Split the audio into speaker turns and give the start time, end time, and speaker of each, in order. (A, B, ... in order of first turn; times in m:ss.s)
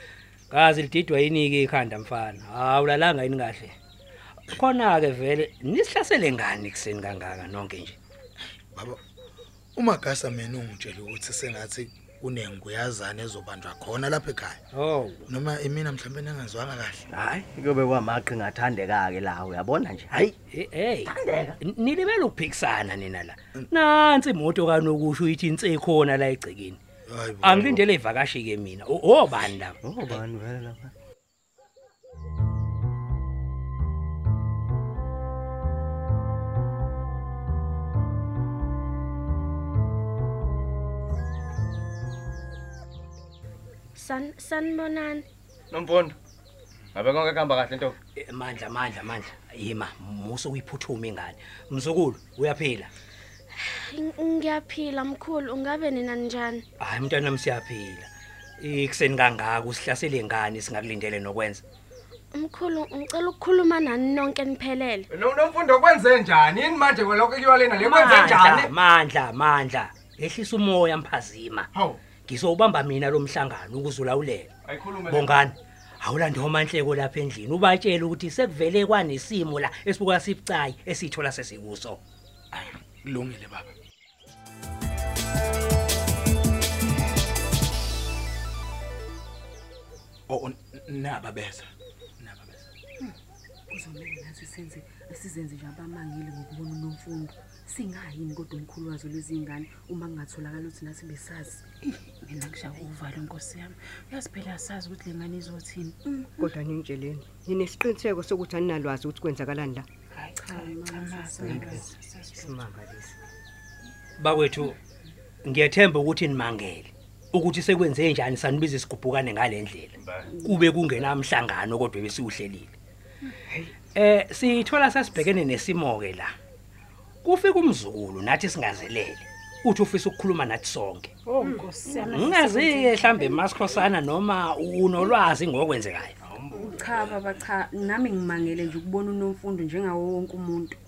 0:00.5-0:03.8 A
0:04.5-0:08.0 A
0:08.7-0:09.0 B
0:09.8-0:14.6 B
0:14.8-0:15.2 A
0:15.3-0:17.1 B
0:17.1-0:20.3 C
0:20.1-0:26.8 A
0:21.1-0:21.6 C
0:27.1-0:27.8 B
0:27.4-0:29.8 A
0:27.5-0:27.8 C
0:29.8-0:30.9 C
0:44.0-0:45.3 D
0:45.7-0:46.2 C
0:47.0-0:48.0 C
0:48.2-0:52.9 A
0:53.6-0:56.6 D
0:56.8-0:58.1 A
0:58.6-1:01.6 A
1:02.3-1:05.1 D
1:05.1-1:08.7 C
1:07.7-1:11.7 A
1:12.3-1:14.5 A
1:14.7-1:15.4 C
1:15.1-1:22.0 A
1:22.5-1:23.7 B
1:30.3-1:32.7 B
1:33.7-1:41.6 E
1:41.9-1:46.0 F
1:46.4-1:49.9 G
1:50.1-1:52.6 F
1:50.6-1:51.6 E
1:51.4-1:53.2 G
1:54.2-1:54.8 A
1:55.4-2:02.7 A
2:03.9-2:06.3 A
2:07.2-2:11.1 A
2:11.2-2:13.4 F
2:12.0-2:16.1 A
2:16.3-2:17.2 C
2:16.5-2:20.8 E